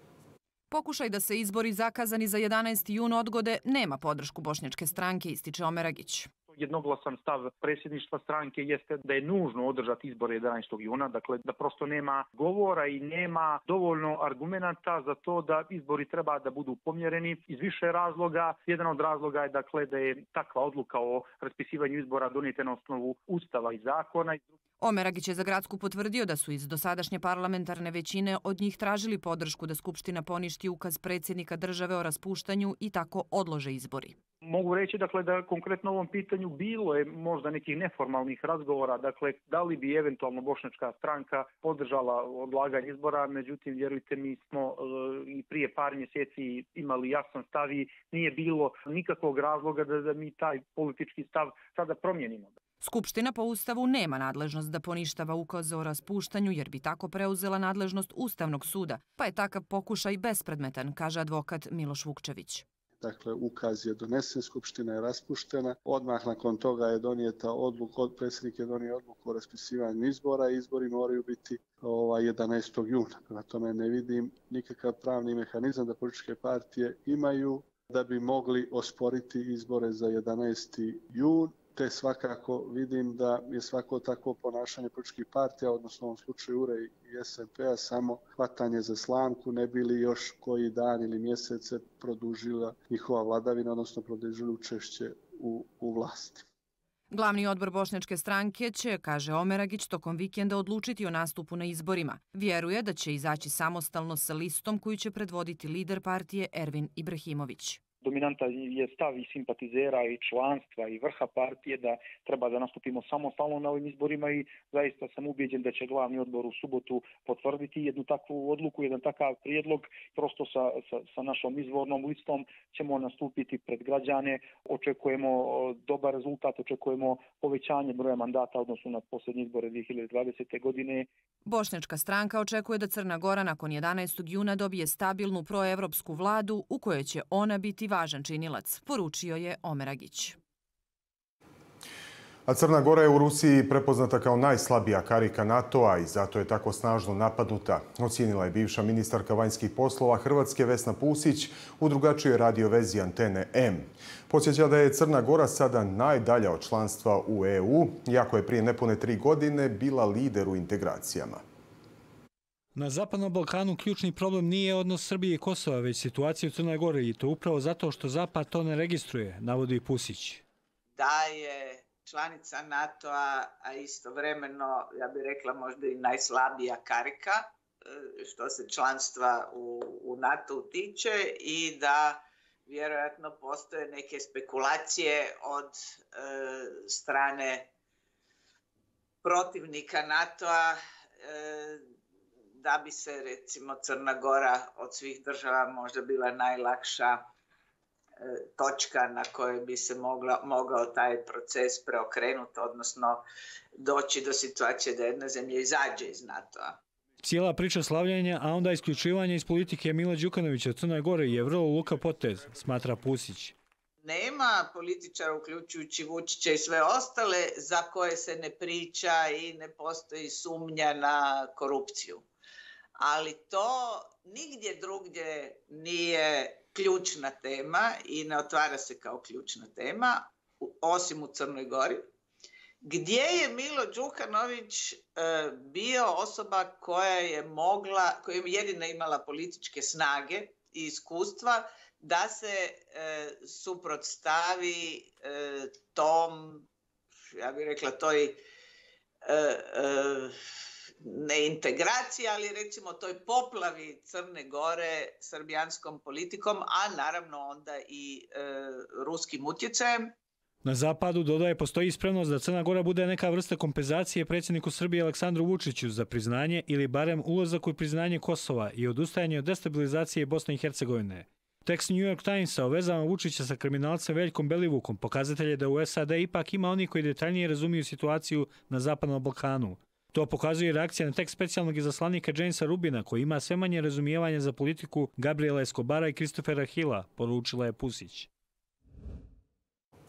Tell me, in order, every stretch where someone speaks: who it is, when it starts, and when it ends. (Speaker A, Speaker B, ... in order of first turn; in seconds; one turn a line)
Speaker A: 0.7-6.3
Speaker B: 6.5-24.4
Speaker A: 24.8-34.1
Speaker B: 34.4-52.5
Speaker A: 52.8-62.6
Speaker C: 63.0-96.4
Speaker A: 97.1-107.8
Speaker B: 108.0-131.1
Speaker A: 131.4-140.4
Speaker D: 142.5-161.4
Speaker E: 162.7-170.4
Speaker F: 171.0-187.7
Speaker F: 189.2-191.8
Speaker F: 192.6-197.2
Speaker F: 198.2-203.2
Speaker F: 203.8-206.8
Speaker E: 207.2-213.5
Speaker F: 214.0-222.2
Speaker F: 223.0-232.1
Speaker F: 232.8-246.6
Speaker F: 247.4-248.4
Speaker F: 249.2-250.3
Speaker F: 251.0-260.1
Speaker E: 260.6-288.3